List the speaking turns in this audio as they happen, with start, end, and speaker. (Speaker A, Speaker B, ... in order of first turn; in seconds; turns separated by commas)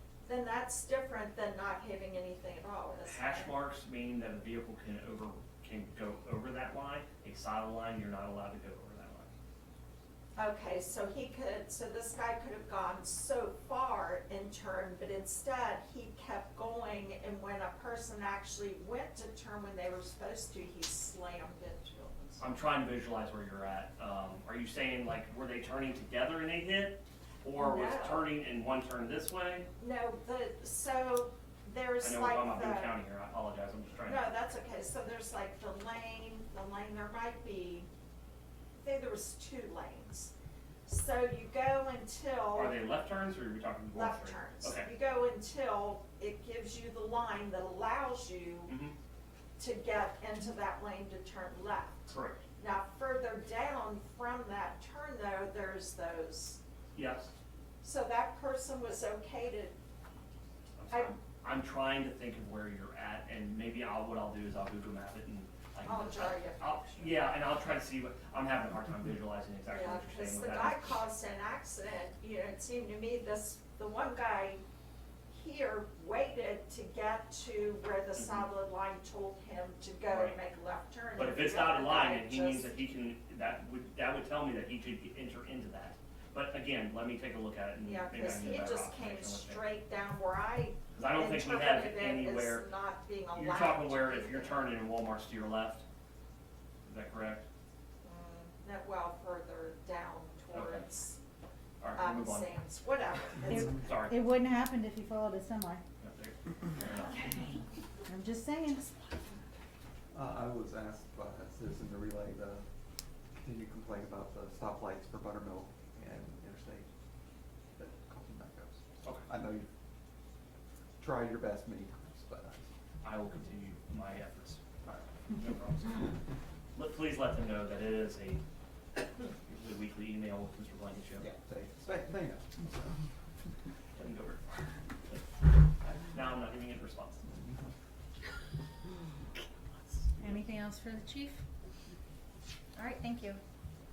Speaker A: 0.2-3.5, Speaker B: 3.0-9.3, Speaker A: 10.3-22.5, Speaker B: 22.4-29.7, Speaker A: 27.5-28.3, Speaker A: 29.8-33.0, Speaker B: 32.0-34.2, Speaker A: 34.0-37.9, Speaker A: 38.8-40.3, Speaker A: 40.9-42.8, Speaker B: 42.5-44.9, Speaker A: 43.9-48.7, Speaker B: 48.7-48.9, Speaker A: 49.6-56.6, Speaker B: 52.1-52.4, Speaker B: 56.9-57.3, Speaker A: 57.8-59.8, Speaker B: 60.8-70.9, Speaker A: 65.8-67.2, Speaker A: 69.7-74.6, Speaker A: 75.3-82.7, Speaker B: 78.2-78.5, Speaker B: 80.1-80.4, Speaker B: 81.2-89.6, Speaker A: 87.8-94.6, Speaker B: 90.9-92.7, Speaker B: 93.3-95.8, Speaker B: 96.8-97.5, Speaker A: 98.0-101.2, Speaker B: 100.5-100.8, Speaker B: 101.8-102.6, Speaker A: 101.9-103.9, Speaker B: 103.2-104.2, Speaker C: 103.5-105.8, Speaker B: 106.0-107.5, Speaker C: 108.0-109.1, Speaker D: 110.1-112.6, Speaker D: 113.4-116.9, Speaker D: 117.8-119.7, Speaker D: 121.0-122.7, Speaker B: 123.0-126.1, Speaker B: 126.7-128.4, Speaker B: 129.4-131.3, Speaker D: 131.2-132.9, Speaker B: 133.9-134.5, Speaker B: 136.1-137.3, Speaker D: 137.3-137.7, Speaker C: 140.2-141.4, Speaker C: 142.7-143.4